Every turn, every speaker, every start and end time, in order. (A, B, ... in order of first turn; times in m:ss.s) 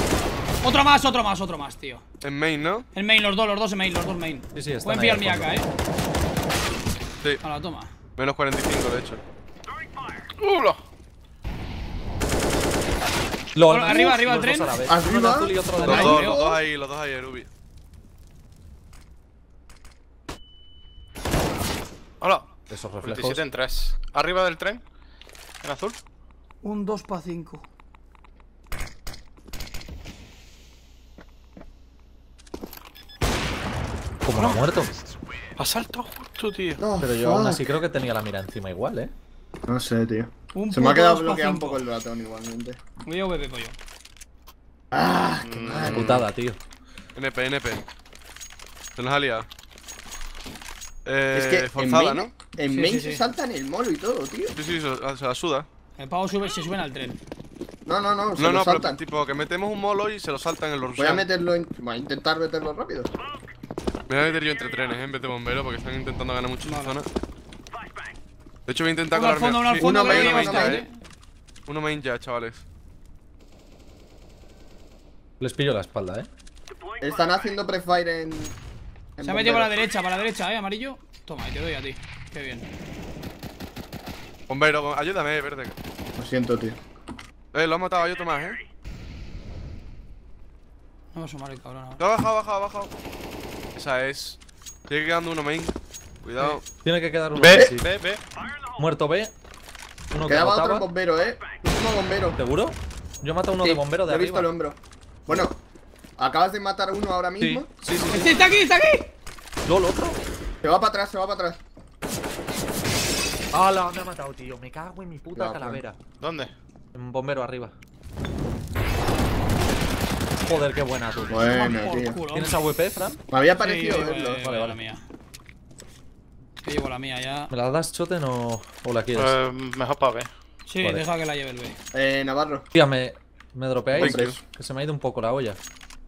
0:00.6-0:02.0 A
0:02.2-0:02.9 B
0:02.9-0:05.7 A
0:04.5-0:05.6 C
0:07.4-0:07.9 A
0:08.2-0:09.2 B
0:10.4-0:10.8 D
0:13.6-0:16.4 C
0:13.7-0:14.8 A
0:14.9-0:16.6 E
0:15.8-0:16.5 A
0:15.9-0:17.5 B
0:22.2-0:22.5 D
0:22.7-0:23.4 C
0:23.0-0:24.8 D
0:25.6-0:26.0 D
0:26.6-0:27.6 A
0:34.2-0:34.9 C
0:34.4-0:34.7 D
0:35.6-0:36.8 D
0:36.8-0:37.7 E
0:37.0-0:39.1 C
0:39.7-0:42.8 E
0:40.5-0:41.8 A
0:43.1-0:43.8 A
0:44.9-0:46.3 E
0:45.4-0:46.2 D
0:45.7-0:46.6 C
0:47.2-0:47.8 B
0:49.0-0:49.5 B
0:51.0-0:52.3 B
0:51.3-0:54.6 E
0:52.6-0:53.2 A
0:54.6-0:55.7 B
0:56.0-0:57.2 A
0:57.9-0:59.0 E
0:58.4-1:01.2 B
1:01.0-1:03.1 E
1:04.1-1:07.1 B
1:06.6-1:07.0 A
1:08.7-1:10.9 B
1:09.1-1:10.9 A
1:09.7-1:10.8 E
1:11.7-1:12.6 B
1:15.4-1:16.3 C
1:17.0-1:18.6 E
1:19.2-1:19.9 E
1:19.2-1:22.7 A
1:24.5-1:25.8 B
1:26.2-1:26.8 E
1:27.5-1:28.6 B
1:31.1-1:32.0 A
1:32.0-1:32.9 B
1:33.8-1:34.4 B
1:34.9-1:36.6 B
1:36.8-1:37.9 C
1:37.4-1:38.2 D
1:38.8-1:39.3 C
1:40.1-1:40.9 C
1:40.3-1:42.4 E
1:42.4-1:44.5 C
1:44.1-1:45.6 E
1:46.2-1:47.7 E
1:47.4-1:48.4 C
1:48.0-1:49.1 A
1:49.7-1:50.2 C
1:50.6-1:51.6 E
1:53.5-1:56.0 C
1:55.4-1:55.8 E
1:56.2-1:56.5 D
1:56.9-1:57.7 C
2:00.4-2:03.2 C
2:01.3-2:02.2 E
2:01.4-2:02.6 A
2:03.3-2:04.5 E
2:03.6-2:05.0 A
2:04.4-2:04.8 C
2:06.6-2:07.5 A
2:07.5-2:09.4 C
2:09.2-2:10.3 D
2:10.7-2:11.8 A
2:11.9-2:12.7 E
2:12.7-2:15.6 C
2:13.9-2:14.4 E
2:14.0-2:14.4 B